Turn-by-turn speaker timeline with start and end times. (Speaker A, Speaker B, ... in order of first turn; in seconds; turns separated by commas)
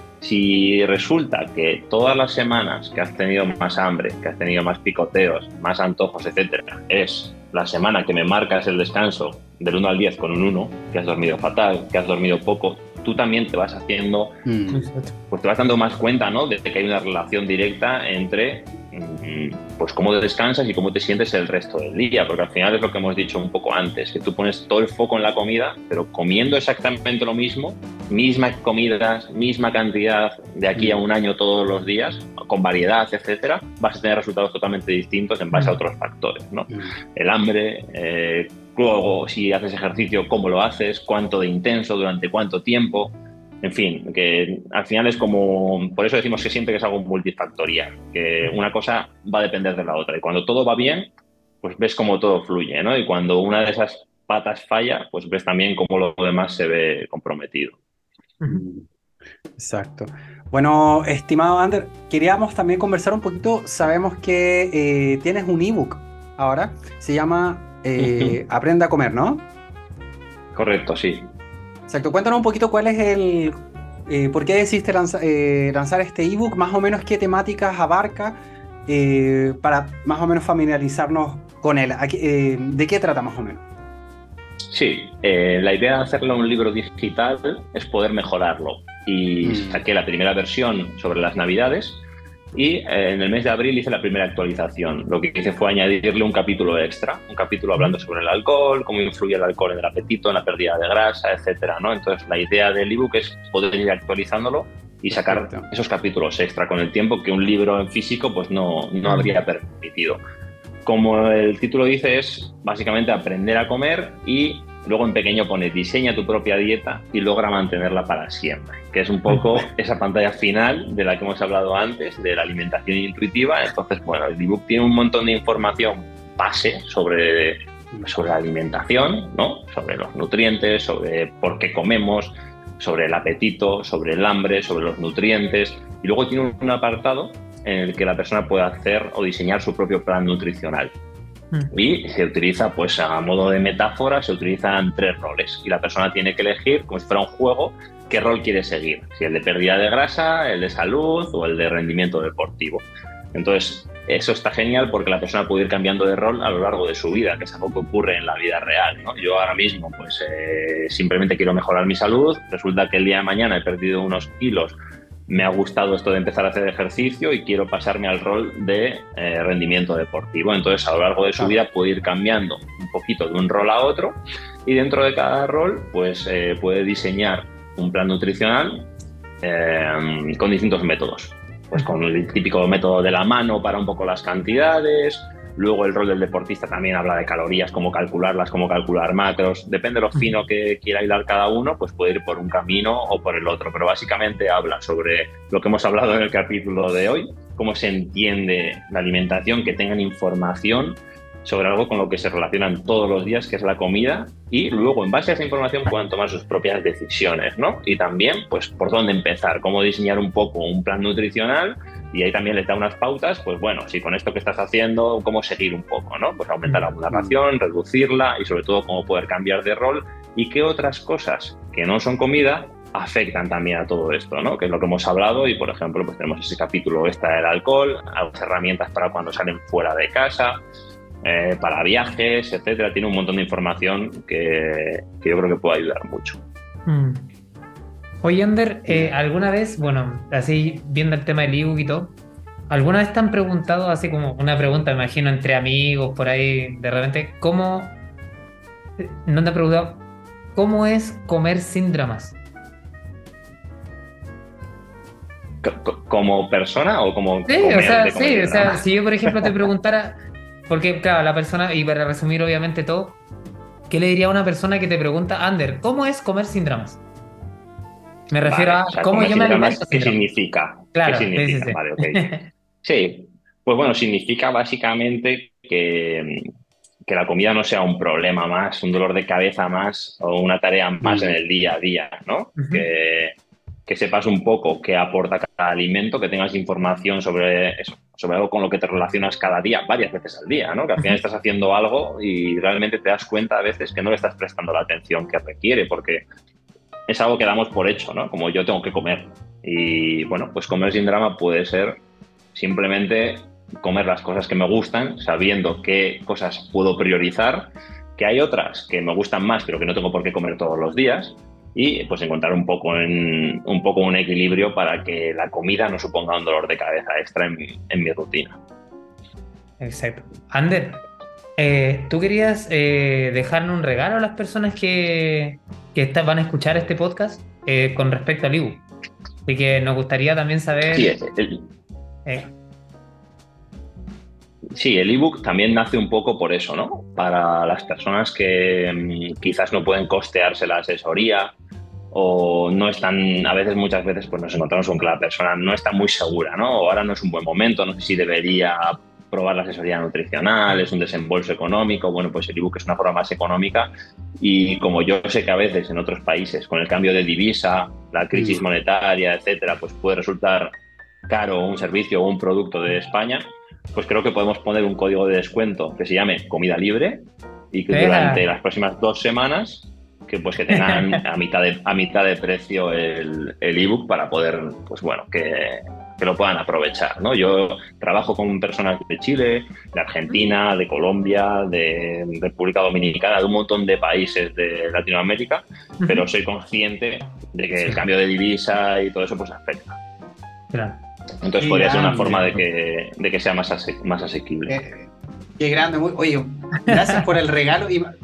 Speaker A: 0.2-14.3, Speaker B: 14.4-14.9, Speaker C: 14.7-15.1, Speaker A: 15.3-57.8, Speaker B: 30.7-31.0, Speaker C: 35.5-35.8, Speaker B: 36.7-37.0, Speaker B: 58.4-58.9, Speaker B: 59.6-69.4, Speaker A: 68.0-68.3, Speaker A: 70.5-71.3, Speaker B: 71.9-73.5, Speaker B: 74.1-83.6, Speaker A: 84.7-92.0, Speaker B: 89.4-89.8, Speaker A: 92.5-110.2, Speaker B: 105.1-105.7, Speaker C: 109.0-109.3, Speaker A: 110.8-140.9, Speaker C: 119.3-119.6, Speaker A: 141.7-164.8, Speaker A: 165.3-178.9, Speaker A: 179.4-230.6, Speaker B: 217.1-217.3, Speaker A: 231.2-236.4, Speaker C: 236.8-237.3, Speaker C: 238.2-242.1, Speaker C: 242.7-247.9, Speaker C: 249.0-250.0, Speaker C: 250.5-252.3, Speaker A: 255.6-259.5, Speaker C: 257.5-263.2, Speaker C: 263.9-267.0, Speaker C: 268.3-270.2, Speaker A: 268.4-272.3, Speaker C: 270.9-272.5, Speaker A: 272.8-276.5, Speaker A: 277.0-283.4, Speaker B: 281.0-281.3, Speaker C: 282.6-282.8, Speaker A: 283.9-296.2, Speaker A: 297.1-302.0, Speaker A: 302.5-318.6, Speaker C: 319.8-321.0, Speaker C: 321.6-328.8, Speaker C: 329.4-331.1, Speaker A: 330.9-331.7, Speaker A: 334.7-341.5, Speaker A: 342.1-360.7, Speaker B: 358.3-358.6, Speaker A: 361.3-390.0, Speaker C: 367.9-368.5, Speaker C: 370.7-371.2, Speaker C: 386.0-386.2, Speaker C: 390.7-391.0, Speaker A: 391.4-394.8, Speaker B: 391.6-392.5, Speaker C: 392.2-392.6, Speaker B: 394.7-398.1, Speaker C: 396.9-397.3